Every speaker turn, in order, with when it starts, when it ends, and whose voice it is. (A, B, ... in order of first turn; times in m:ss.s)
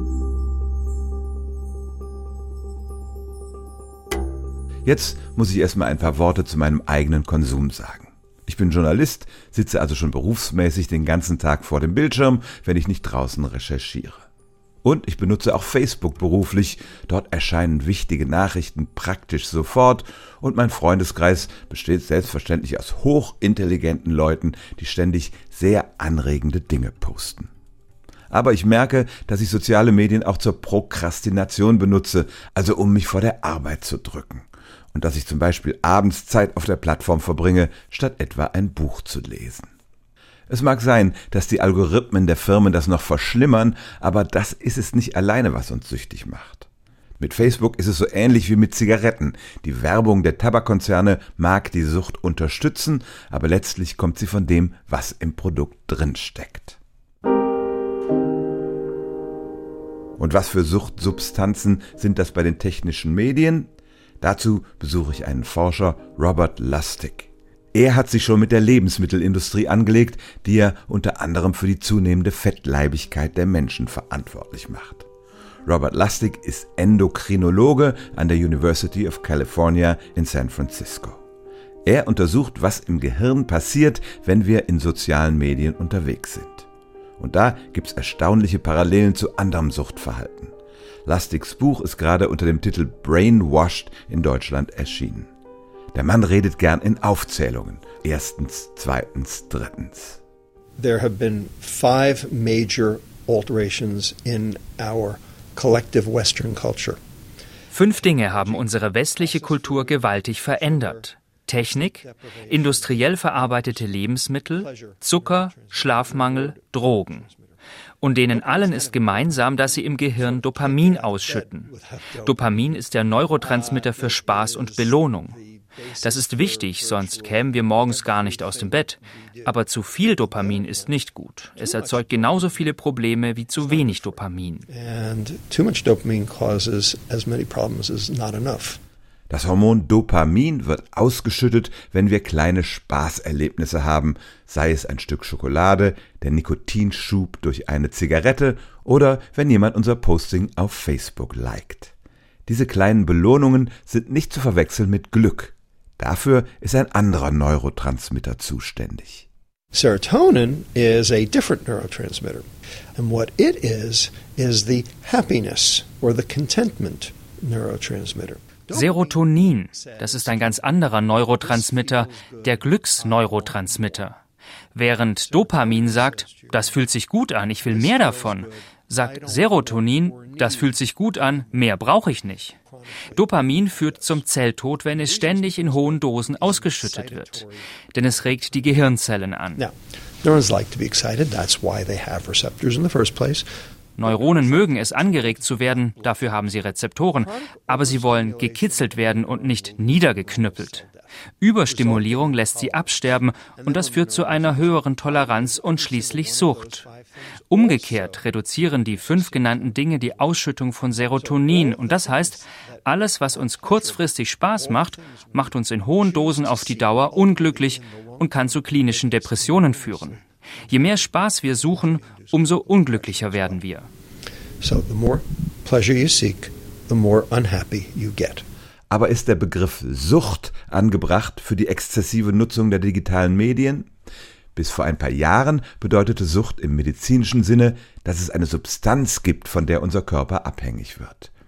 0:04.8-0:14.2 A
0:14.8-0:27.5 A
0:28.3-0:39.7 A
0:40.5-0:46.7 A
0:47.2-0:56.8 A
1:00.2-1:03.7 A
1:04.2-1:15.1 A
1:15.7-1:21.2 A
1:21.8-1:26.7 A
1:27.2-1:30.5 A
1:31.1-1:35.3 A
1:35.9-1:40.2 A
1:40.8-1:47.0 B
1:47.7-1:57.3 C
1:48.0-1:51.1 B
1:51.6-1:53.9 B
1:54.5-1:57.5 B
1:58.0-2:01.7 C
1:58.3-2:02.6 B
2:02.2-2:05.4 C
2:03.4-2:09.5 B
2:06.0-2:14.7 C
2:10.1-2:10.9 B
2:11.6-2:12.7 B
2:13.6-2:18.8 B
2:19.3-2:31.9 A
2:32.5-2:39.3 A
2:39.7-2:54.0 B
2:48.7-2:54.2 C
2:54.7-3:02.6 C
2:55.2-2:56.9 B
2:57.6-3:00.8 B
3:02.7-3:04.2 B
3:03.1-3:09.6 C
3:04.9-3:07.6 B
3:09.6-3:13.5 B
3:14.0-3:20.8 C
3:14.0-3:16.4 B
3:17.2-3:21.1 B
3:21.4-3:26.8 C
3:21.6-3:30.4 B
3:27.5-3:43.9 C
3:31.1-3:43.6 B
3:44.6-3:48.4 B
3:48.9-3:53.9 A
3:54.6-4:01.3 A